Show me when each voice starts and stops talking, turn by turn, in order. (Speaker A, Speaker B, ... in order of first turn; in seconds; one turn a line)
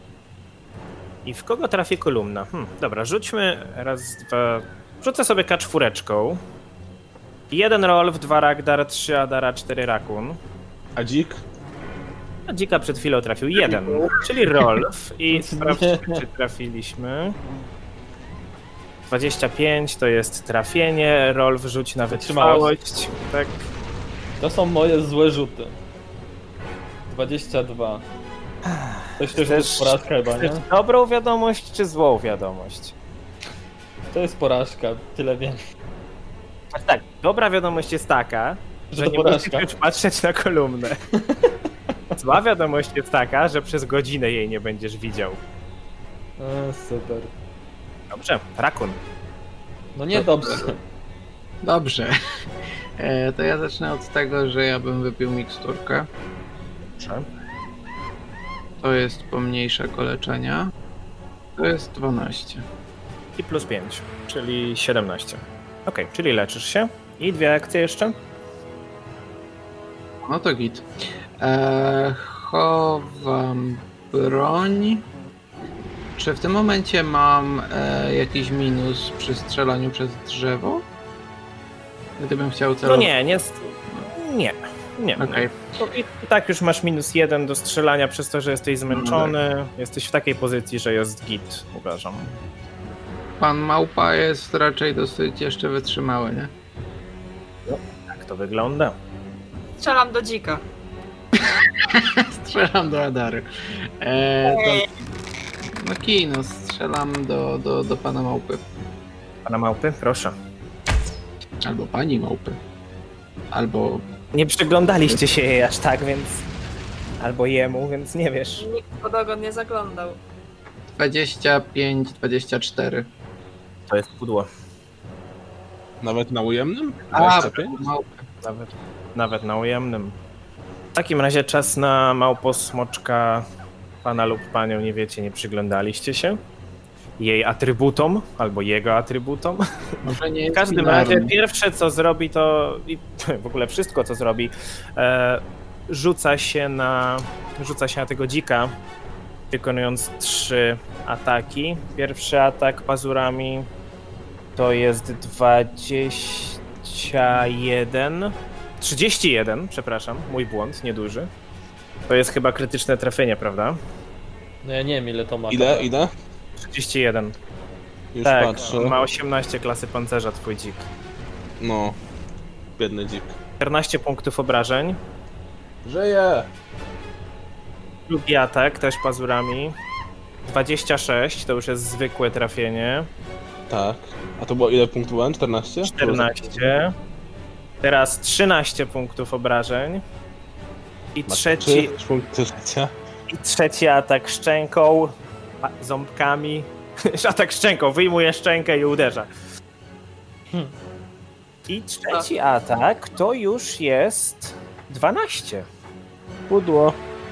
Speaker A: 1.2-6.4
Speaker A: 7.5-10.4
Speaker B: 10.9-11.4
Speaker A: 12.5-17.4
Speaker C: 15.3-16.2
Speaker A: 19.1-23.6
Speaker C: 22.1-22.7
Speaker C: 24.4-25.8
Speaker C: 27.1-28.0
Speaker A: 28.6-32.9
Speaker C: 29.2-30.6
Speaker C: 34.1-35.6
Speaker A: 36.7-41.0
Speaker C: 38.9-39.7
Speaker C: 41.1-41.5
Speaker A: 42.2-45.4
Speaker C: 46.4-47.3
Speaker A: 48.1-49.0
Speaker C: 50.0-50.8
Speaker D: 50.1-50.7
Speaker D: 51.6-52.4
Speaker D: 53.0-56.1
Speaker A: 57.0-57.2
Speaker D: 58.8-60.7
Speaker D: 61.6-62.6
Speaker A: 63.4-68.2
Speaker D: 70.2-70.9
Speaker D: 71.4-75.0
Speaker D: 76.2-80.8
Speaker D: 82.2-83.1
Speaker A: 82.8-92.3
Speaker D: 85.2-85.5
Speaker D: 88.9-89.3
Speaker D: 93.4-96.5
Speaker A: 97.7-98.9
Speaker E: 99.8-100.6
Speaker D: 101.4-103.5
Speaker D: 104.0-104.9
Speaker E: 104.5-104.8
Speaker D: 105.8-108.6
Speaker A: 109.5-110.3
Speaker D: 111.6-112.6
Speaker D: 113.5-114.0
Speaker A: 114.3-116.5
Speaker A: 117.2-118.7
Speaker E: 118.6-120.2
Speaker D: 121.0-123.1
Speaker A: 123.9-124.5
Speaker B: 126.0-127.8
Speaker D: 127.1-128.2
Speaker A: 128.4-130.2
Speaker A: 130.9-133.4
Speaker A: 134.0-136.4
Speaker A: 137.2-139.6
Speaker D: 140.0-141.3
Speaker A: 140.5-148.7
Speaker A: 149.5-153.7
Speaker A: 154.6-161.3
Speaker A: 162.1-163.8
Speaker C: 164.6-165.9
Speaker B: 165.5-166.1
Speaker A: 166.6-167.4
Speaker B: 168.1-169.0
Speaker A: 168.2-170.9
Speaker B: 171.6-172.0
Speaker B: 172.8-173.3
Speaker A: 173.6-175.0
Speaker B: 175.8-176.5
Speaker A: 178.1-179.7
Speaker A: 180.4-183.1
Speaker B: 183.7-186.5
Speaker A: 185.8-186.9
Speaker A: 187.8-190.0
Speaker A: 191.2-191.9
Speaker B: 191.3-192.9
Speaker A: 193.3-199.3
Speaker A: 201.7-205.7
Speaker B: 206.5-206.9